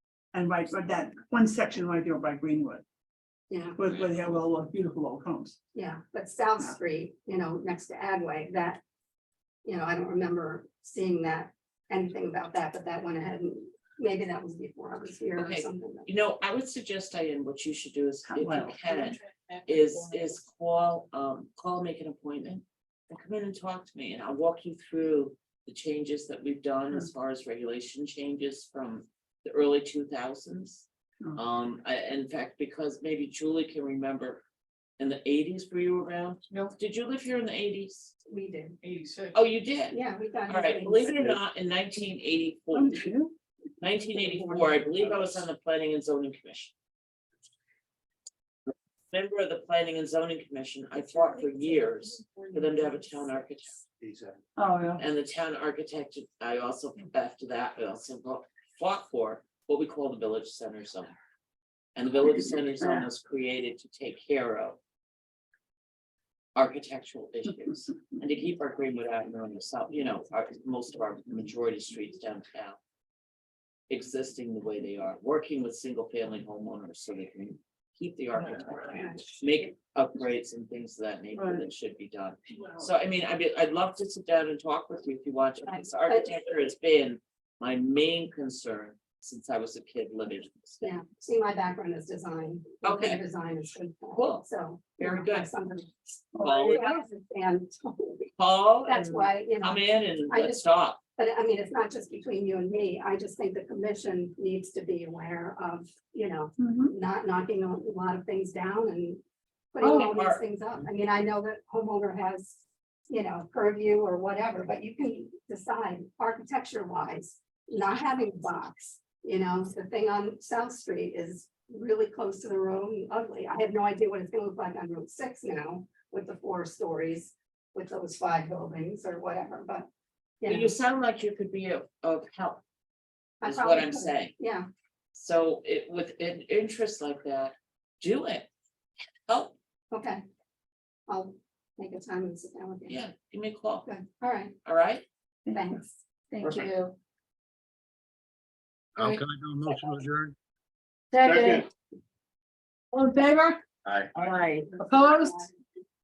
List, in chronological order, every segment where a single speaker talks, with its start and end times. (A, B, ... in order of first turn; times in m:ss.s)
0:00.3-0:02.8 A
0:03.5-0:03.8 B
0:03.8-0:05.6 A
0:05.7-0:08.8 B
0:09.6-0:16.1 B
0:15.3-0:34.4 C
0:18.2-0:18.8 A
0:18.9-0:20.4 D
0:35.0-0:38.1 C
0:38.3-0:38.8 B
0:38.8-0:39.4 D
0:39.3-0:43.1 C
0:39.9-0:41.2 B
0:42.7-0:43.3 A
0:43.8-0:46.7 C
0:49.1-0:53.8 C
0:51.1-0:52.6 D
0:54.0-0:54.3 E
0:54.6-0:55.0 A
0:55.0-1:01.1 C
1:02.0-1:04.8 C
1:02.8-1:03.1 A
1:06.5-1:12.8 C
1:07.6-1:08.0 A
1:13.9-1:30.8 C
1:18.9-1:19.2 B
1:21.3-1:21.6 A
1:26.0-1:26.3 B
1:30.8-1:38.3 B
1:32.8-1:33.2 C
1:34.1-1:35.5 C
1:36.3-1:37.0 A
1:36.4-1:36.8 C
1:38.4-1:41.0 C
1:38.8-1:40.6 B
1:41.2-1:49.2 B
1:46.6-1:46.9 A
1:49.7-2:09.9 B
1:49.8-1:50.4 C
2:10.4-2:10.7 B
2:10.4-2:12.6 C
2:13.4-2:14.7 B
2:13.4-2:14.4 C
2:15.1-2:18.5 C
2:19.3-2:19.5 C
2:19.9-2:20.2 B
2:21.1-2:23.0 B
2:22.9-2:23.9 C
2:23.8-2:24.5 B
2:24.6-2:25.0 C
2:25.4-2:25.7 A
2:25.5-2:26.9 B
2:26.4-2:26.7 C
2:29.0-2:30.4 E
2:31.2-2:31.6 A
2:31.2-2:31.6 E
2:32.9-2:33.6 A
2:34.1-2:34.7 C
2:34.8-2:35.5 A